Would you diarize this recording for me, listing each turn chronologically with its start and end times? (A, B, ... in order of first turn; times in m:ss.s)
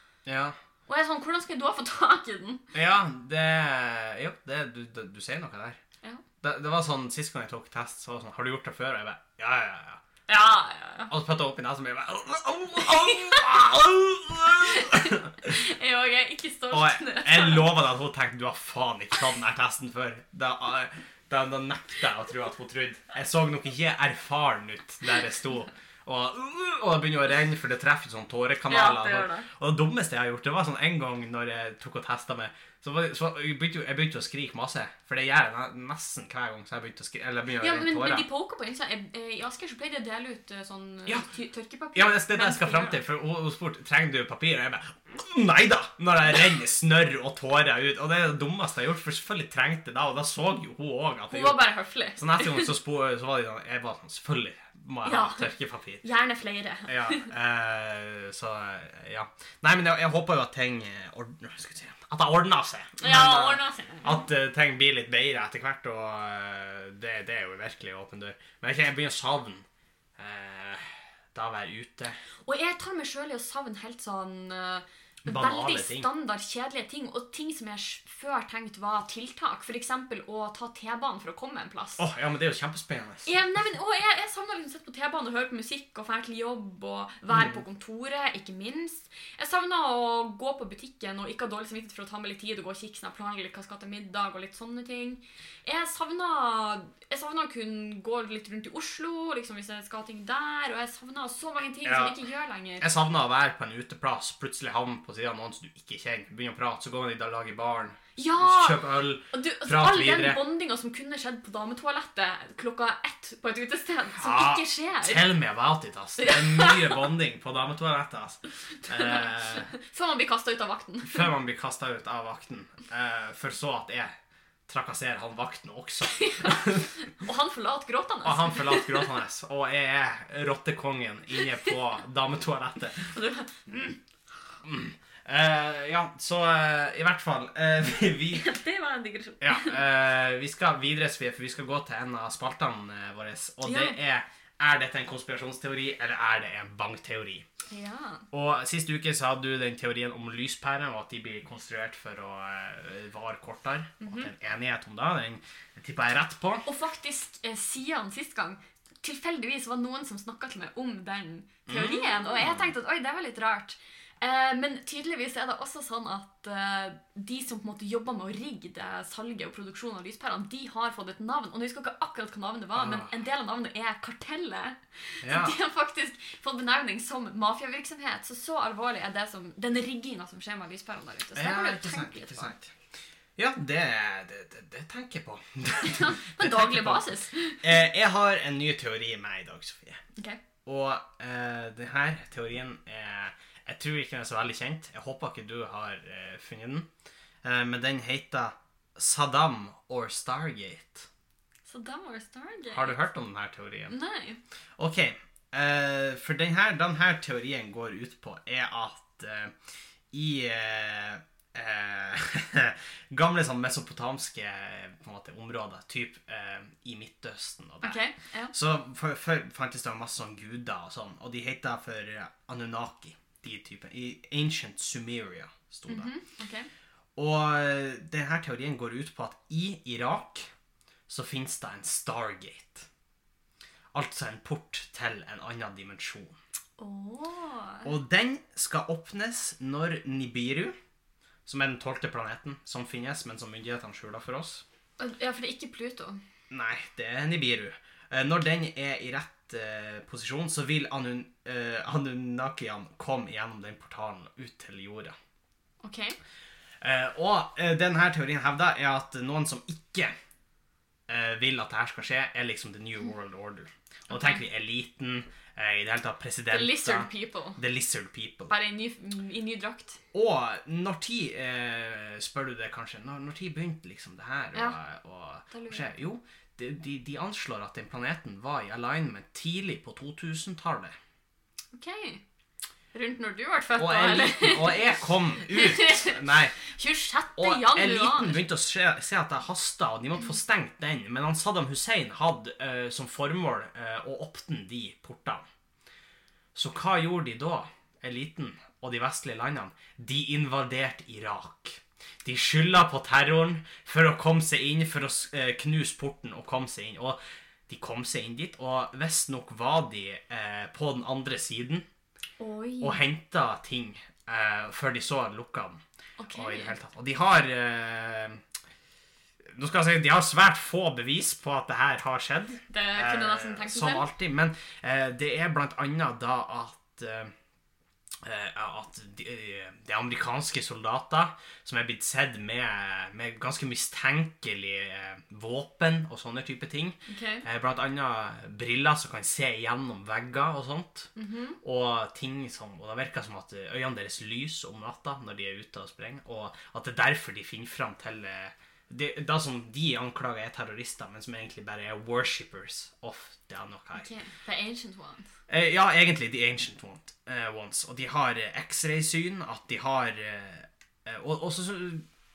0:00.3-0:00.6 A
0:00.9-0:02.7 B
0:02.7-0:05.8 A
0:06.4-0:10.0 A
0:10.3-0:11.1 B
0:11.1-0:15.6 A
0:12.8-0:13.4 B
0:14.6-0:17.7 B
0:16.7-0:38.2 A
0:28.7-0:29.5 B
0:37.6-0:43.0 B
0:42.0-0:51.6 A
0:51.3-0:52.7 B
0:52.2-0:56.0 A
0:55.0-0:55.5 B
0:56.0-0:57.3 B
0:56.9-1:09.6 A
1:03.0-1:04.2 B
1:10.2-1:12.2 A
1:12.5-1:22.0 B
1:15.2-1:16.1 A
1:22.0-1:23.3 A
1:23.2-1:42.8 B
1:41.8-1:42.2 A
1:42.8-1:50.4 A
1:48.2-1:55.2 B
1:54.2-1:59.7 A
1:56.2-1:57.1 B
1:58.9-2:01.3 B
2:01.0-2:04.1 A
2:04.7-2:06.9 A
2:06.1-2:09.2 B
2:08.2-2:13.1 A
2:13.0-2:14.0 B
2:14.6-2:18.5 A
2:18.3-2:19.8 B
2:19.4-2:27.4 A
2:23.6-2:24.0 B
2:27.7-2:28.2 B
2:28.3-2:36.7 A
2:34.0-2:34.3 B
2:36.6-3:02.5 B
2:41.7-2:42.7 A
2:52.8-2:53.1 A
2:55.2-2:55.6 A
3:01.4-3:02.7 A
3:03.4-3:07.1 A
3:05.8-3:07.6 B
3:07.6-3:10.0 A
3:10.6-3:16.9 A
3:17.4-3:21.1 A
3:21.7-3:23.0 B
3:22.7-3:24.0 A
3:23.9-3:24.4 B
3:24.8-3:29.5 A
3:30.1-3:46.1 A
3:37.8-3:38.5 B
3:45.9-3:46.7 B
3:47.2-3:50.5 A
3:51.1-3:52.9 A
3:53.9-3:56.4 A
3:56.8-3:57.9 B
3:57.8-4:00.8 A
4:01.5-4:04.6 A
4:05.0-4:06.2 B
4:06.5-4:15.2 A
4:15.8-4:16.2 B
4:16.8-4:20.1 A
4:21.1-4:28.5 A
4:24.1-4:24.4 B
4:26.5-4:27.6 B
4:28.5-4:30.0 B
4:30.1-4:41.0 A
4:35.5-4:35.9 B
4:41.7-4:42.2 B
4:42.9-4:48.4 B
4:43.8-4:46.6 A
4:47.4-4:55.5 A
4:56.6-5:11.9 A
5:12.4-5:13.0 B
5:12.8-5:15.8 A
5:16.2-5:16.7 B
5:16.3-5:18.4 A
5:19.5-5:27.3 A
5:22.7-5:24.1 B
5:28.2-5:41.1 A
5:37.1-5:37.4 B
5:41.2-5:41.6 B
5:41.6-5:54.1 A
5:54.0-5:55.3 B
5:55.5-6:02.1 A